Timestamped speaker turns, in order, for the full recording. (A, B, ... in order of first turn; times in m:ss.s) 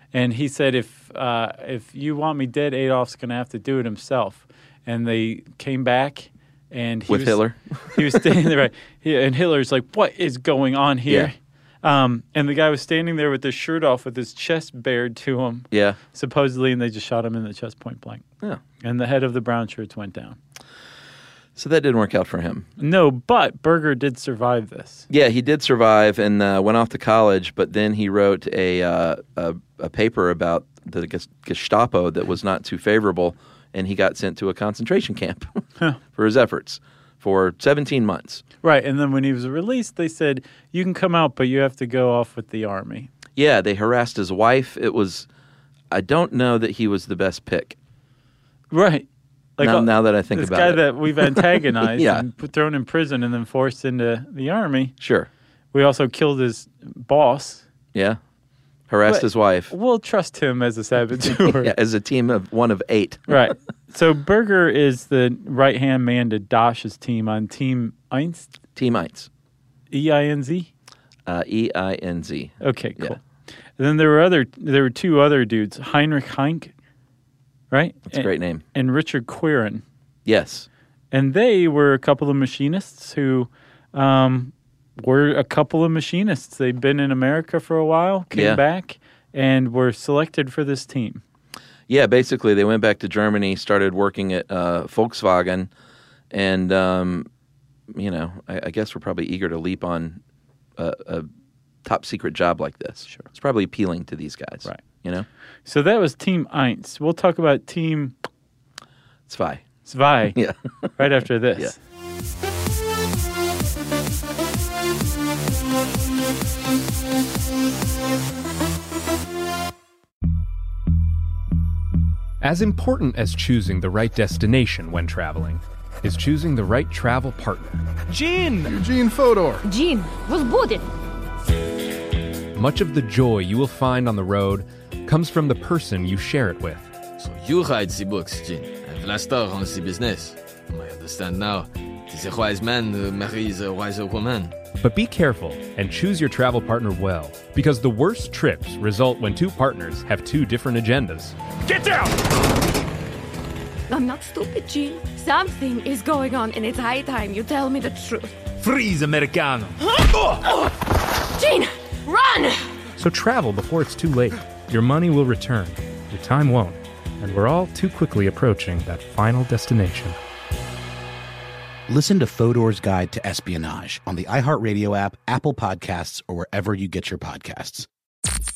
0:00.1-0:07.4 A
0:07.1-0:08.2 B
0:08.0-0:18.2 A
0:15.7-0:16.0 B
0:18.8-0:20.4 A
0:21.6-0:22.7 B
0:22.8-0:25.1 A
0:25.1-0:35.5 B
0:36.1-0:38.4 B
0:38.6-0:43.1 A
0:43.4-0:45.3 B
0:45.9-0:47.8 B
0:48.7-0:55.0 A
0:49.6-0:52.2 B
0:55.0-0:55.3 B
0:55.7-0:57.6 A
0:58.9-0:59.7 B
0:59.1-1:01.7 A
1:01.6-1:03.3 B
1:03.3-1:08.5 A
1:08.8-1:09.3 B
1:09.9-1:10.7 A
1:11.3-1:13.2 B
1:12.6-1:13.2 A
1:13.8-1:16.7 A
1:17.7-1:19.8 A
1:18.1-1:18.6 B
1:20.2-1:20.7 B
1:21.1-1:31.2 A
1:28.3-1:28.6 B
1:31.9-1:35.7 B
1:36.3-1:37.3 B
1:37.9-1:40.2 B
1:40.8-1:41.3 B
1:41.8-1:45.3 B
1:45.7-1:48.1 A
1:49.3-1:49.7 B
1:49.9-1:50.4 A
1:51.0-1:51.8 A
2:02.4-2:09.6 C
2:09.6-2:10.9 D
2:12.6-2:16.8 C
2:17.2-2:24.6 E
2:24.8-2:31.4 C
2:33.9-2:38.5 D
2:38.6-2:39.8 C
2:39.8-2:40.7 D
2:41.3-2:42.7 D
2:43.0-2:50.2 C
2:51.9-2:57.9 F